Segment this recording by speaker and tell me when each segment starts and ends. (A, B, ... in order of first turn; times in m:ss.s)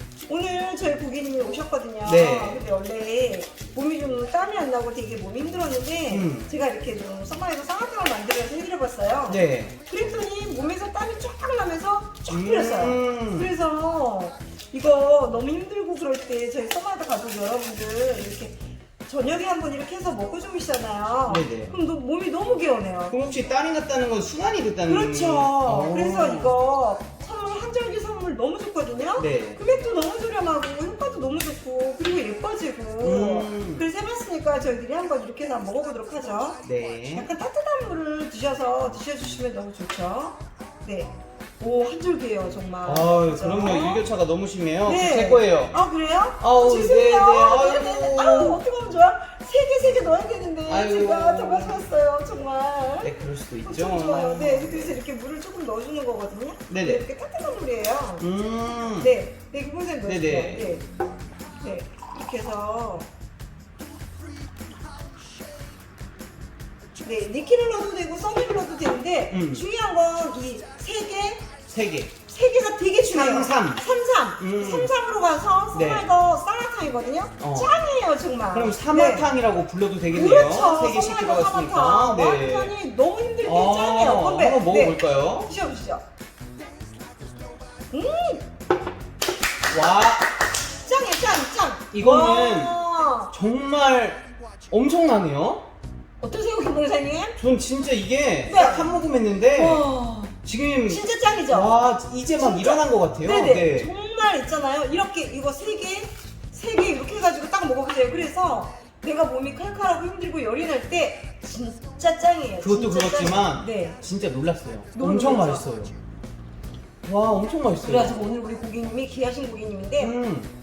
0:00.3-0:23.1 A
0:02.0-0:02.7 B
0:06.1-0:06.5 B
0:09.3-0:09.7 B
0:12.3-0:13.5 B
0:21.3-0:21.7 B
0:23.1-0:26.5 B
0:24.8-0:36.6 A
0:29.2-0:29.6 B
0:33.0-0:33.8 B
0:36.6-0:37.3 B
0:37.1-0:44.0 A
0:42.8-0:45.8 B
0:44.8-0:53.1 A
0:46.4-0:48.6 B
0:50.7-0:51.8 B
0:53.0-0:55.0 B
0:53.6-0:58.2 A
0:56.7-0:57.0 B
0:58.2-0:59.1 B
0:59.0-1:00.8 A
1:00.0-1:00.7 B
1:01.6-1:03.1 A
1:07.0-1:11.5 A
1:09.3-1:09.6 B
1:11.7-1:12.1 B
1:12.3-1:19.3 A
1:13.0-1:13.8 B
1:14.4-1:14.9 B
1:15.7-1:16.1 B
1:17.4-1:17.7 B
1:18.5-1:22.7 B
1:20.1-1:26.0 A
1:23.4-1:25.5 B
1:27.9-1:28.4 A
1:29.7-1:30.3 B
1:30.8-1:33.3 A
1:31.9-1:35.7 B
1:36.2-1:37.4 A
1:37.4-1:39.9 B
1:38.4-1:39.0 A
1:39.5-1:54.0 A
1:40.4-1:43.9 B
1:52.6-1:55.9 B
1:54.9-1:55.6 A
1:57.0-1:58.2 B
1:57.8-2:00.1 A
2:00.0-2:00.5 B